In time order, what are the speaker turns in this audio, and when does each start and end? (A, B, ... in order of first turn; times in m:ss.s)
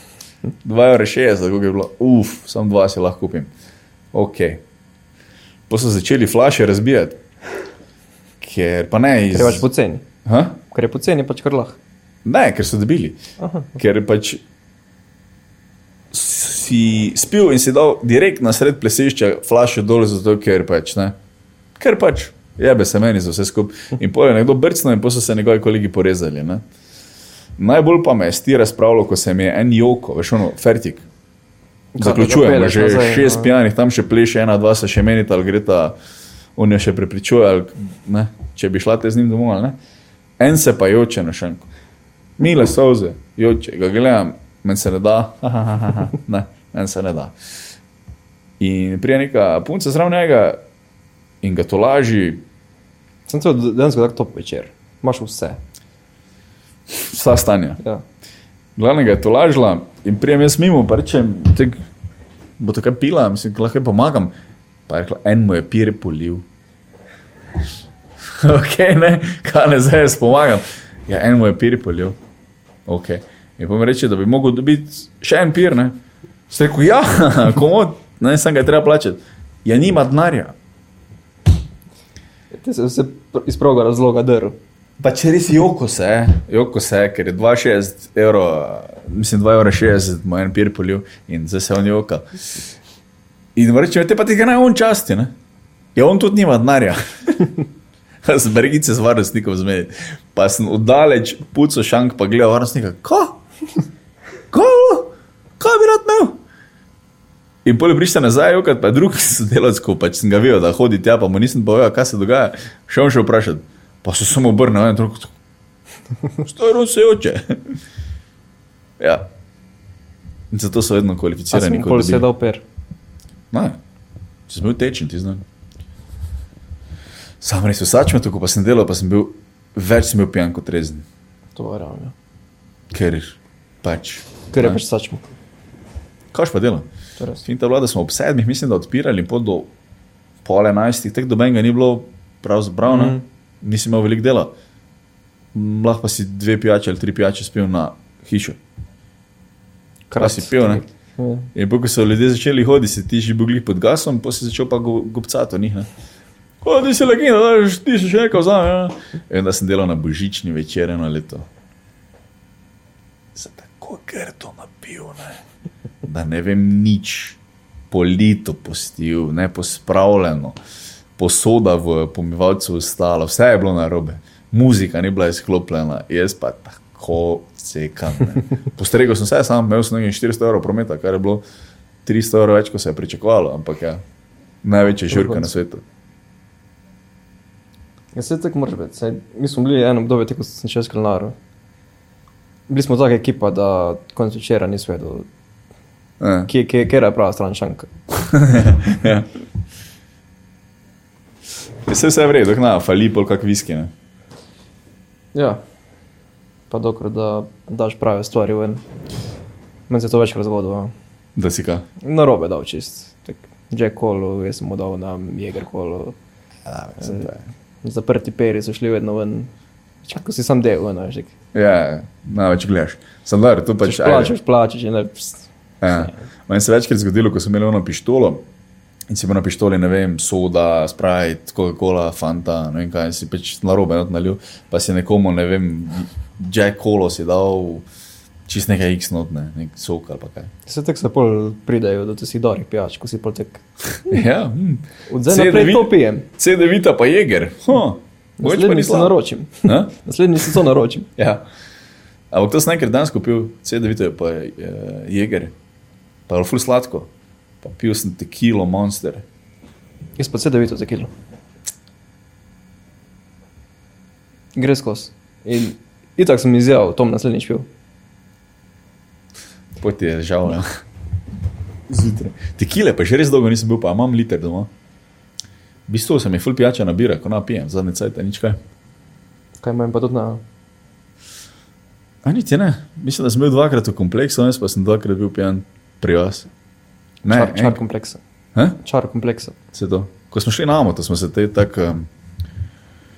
0:00.6-0:03.5 A
0:04.1-0:04.6 A
0:05.7-0:07.2 A
0:08.4-0:09.6 A
0:09.3-0:10.0 B
0:10.2-0:10.6 A
0:10.7-0:11.8 B
0:12.2-0:13.2 A
0:13.4-0:13.8 B
0:13.8-0:14.4 A
0:16.1-0:21.2 A
0:21.8-0:26.6 A
0:27.6-0:31.0 A
0:31.9-0:33.5 B
0:32.0-0:36.0 A
0:36.6-0:39.8 A
0:40.4-0:41.7 A
0:42.4-0:47.3 A
0:48.6-0:50.6 A
0:51.4-0:52.4 A
0:53.3-0:55.6 B
0:56.9-0:57.8 A
0:58.8-1:01.8 A
1:02.6-1:04.3 A
1:04.9-1:06.4 A
1:08.3-1:12.2 A
1:12.9-1:15.9 A
1:16.5-1:20.5 A
1:22.5-1:24.6 B
1:25.0-1:32.6 A
1:33.6-1:35.3 A
1:36.0-1:37.6 A
1:38.2-1:43.4 A
1:44.5-1:46.4 A
1:47.6-1:55.3 A
1:56.4-1:57.8 A
1:59.0-1:59.3 A
2:00.5-2:02.3 A
2:01.5-2:02.6 B
2:03.5-2:03.8 A
2:04.5-2:05.4 A
2:07.4-2:11.0 A
2:11.5-2:12.1 B
2:12.9-2:14.8 A
2:14.5-2:15.2 B
2:16.3-2:16.9 A
2:17.2-2:17.4 B
2:17.4-2:19.7 A
2:20.4-2:24.5 A
2:22.8-2:23.2 B
2:25.5-2:28.6 A
2:30.1-2:31.5 B
2:30.2-2:30.8 A
2:31.5-2:35.9 A
2:36.6-2:41.5 A
2:43.3-2:45.4 A
2:46.0-2:47.4 A
2:47.9-2:50.6 A
2:51.2-3:01.4 A
3:02.0-3:04.0 A
3:04.6-3:05.8 A
3:05.1-3:05.5 B
3:08.1-3:11.3 B
3:12.7-3:15.3 B
3:16.2-3:16.5 A
3:16.5-3:17.9 B
3:18.3-3:19.3 A
3:21.8-3:23.9 A
3:25.3-3:25.6 B
3:26.7-3:28.8 B
3:29.9-3:30.9 B
3:31.4-3:31.8 A
3:32.0-3:36.1 B
3:36.6-3:37.4 A
3:37.0-3:37.3 B
3:37.8-3:39.5 B
3:40.0-3:41.3 B
3:41.5-3:44.3 A
3:43.8-3:45.5 B
3:45.8-3:48.4 A
3:49.1-3:57.8 A
3:58.5-4:00.5 A
4:00.7-4:03.6 B
4:04.0-4:09.9 A
4:05.1-4:06.3 B
4:08.4-4:11.1 B
4:11.2-4:11.4 A
4:12.3-4:15.5 A
4:16.3-4:17.1 A
4:17.6-4:19.2 A
4:20.2-4:21.1 B
4:24.5-4:27.7 B
4:29.8-4:30.6 A
4:31.9-4:34.7 A
4:35.9-4:38.6 A
4:39.6-4:40.4 B
4:42.2-4:46.5 A
4:47.2-4:47.8 A
4:47.3-4:48.2 B
4:48.8-4:49.6 B
4:49.7-4:52.1 A